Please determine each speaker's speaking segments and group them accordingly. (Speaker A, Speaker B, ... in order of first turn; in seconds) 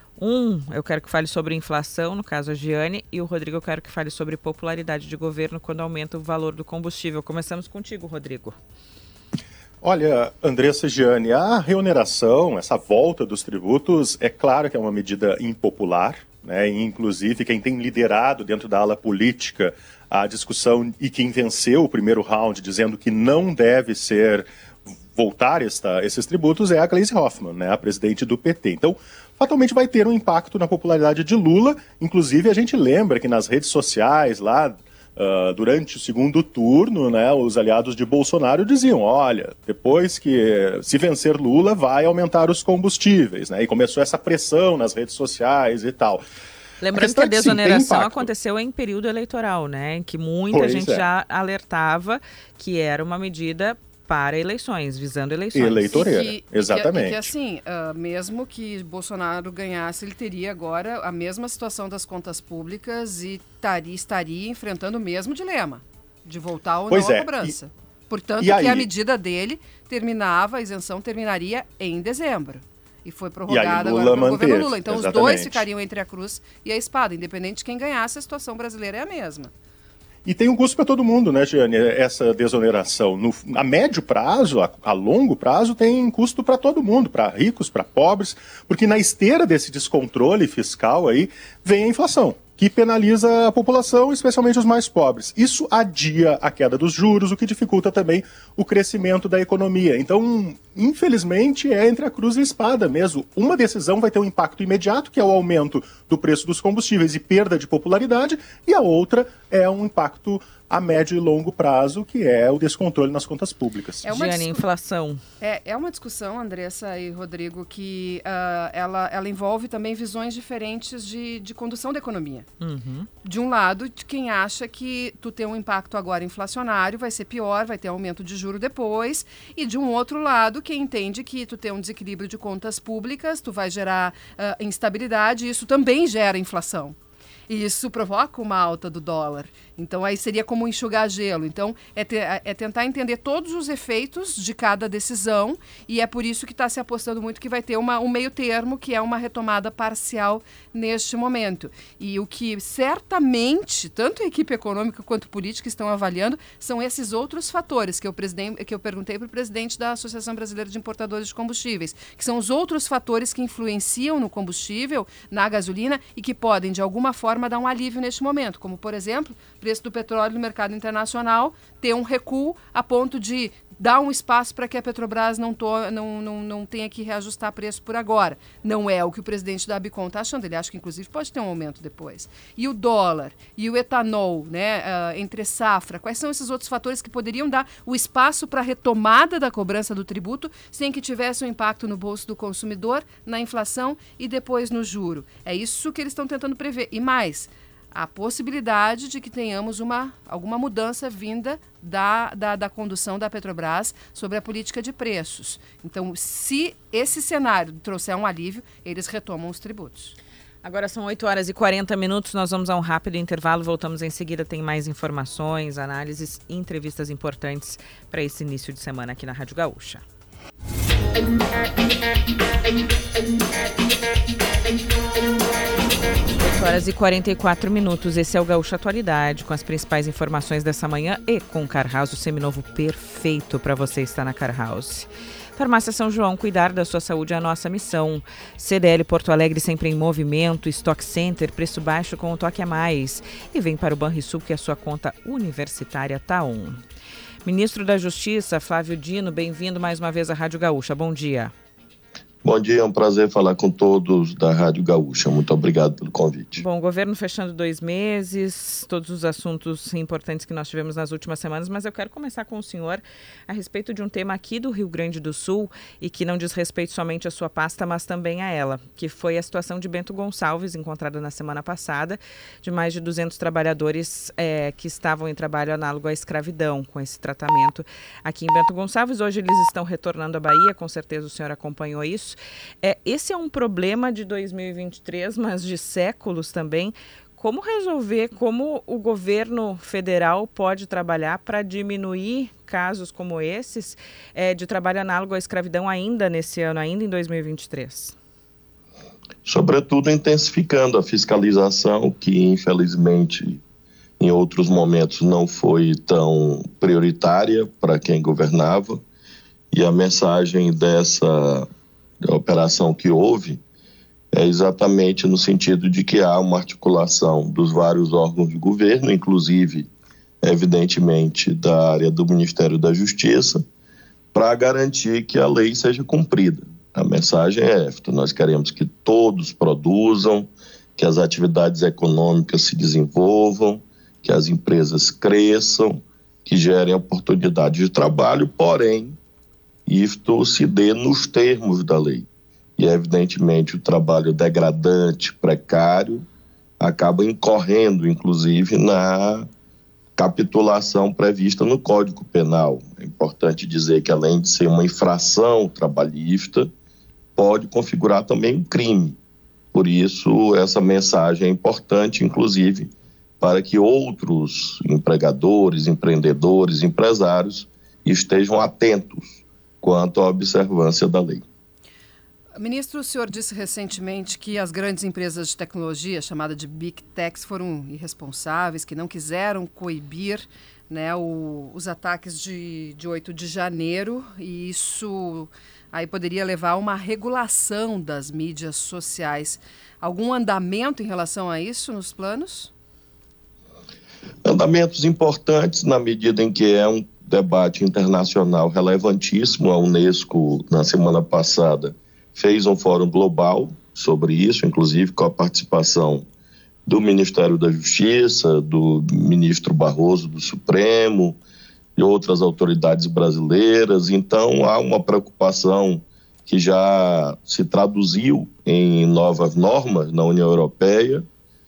Speaker A: 0.2-8.6, 46.8-56.0, 114.0-115.2, 122.6-123.1, 210.6-220.0, 226.5-246.8, 247.4-251.5, 256.6-298.1
Speaker B: 9.8-24.5, 25.1-46.2, 46.9-48.3, 50.5-51.1, 55.5-57.3, 66.9-67.6, 68.4-68.9, 73.5-75.7, 80.3-114.1
Speaker C: 55.9-79.5, 114.0-114.5, 115.4-122.5, 123.2-137.0, 137.5-210.2, 372.6-392.7
Speaker D: 252.4-256.6, 299.4-303.6, 304.2-309.0, 309.7-311.7, 312.2-313.6, 314.3-319.9, 320.4-323.7, 324.3-339.2, 339.9-342.3, 342.8-346.3, 346.8-349.5, 350.2-356.7, 357.4-359.2, 359.7-371.4, 394.4-406.3, 406.9-411.4, 412.0-421.3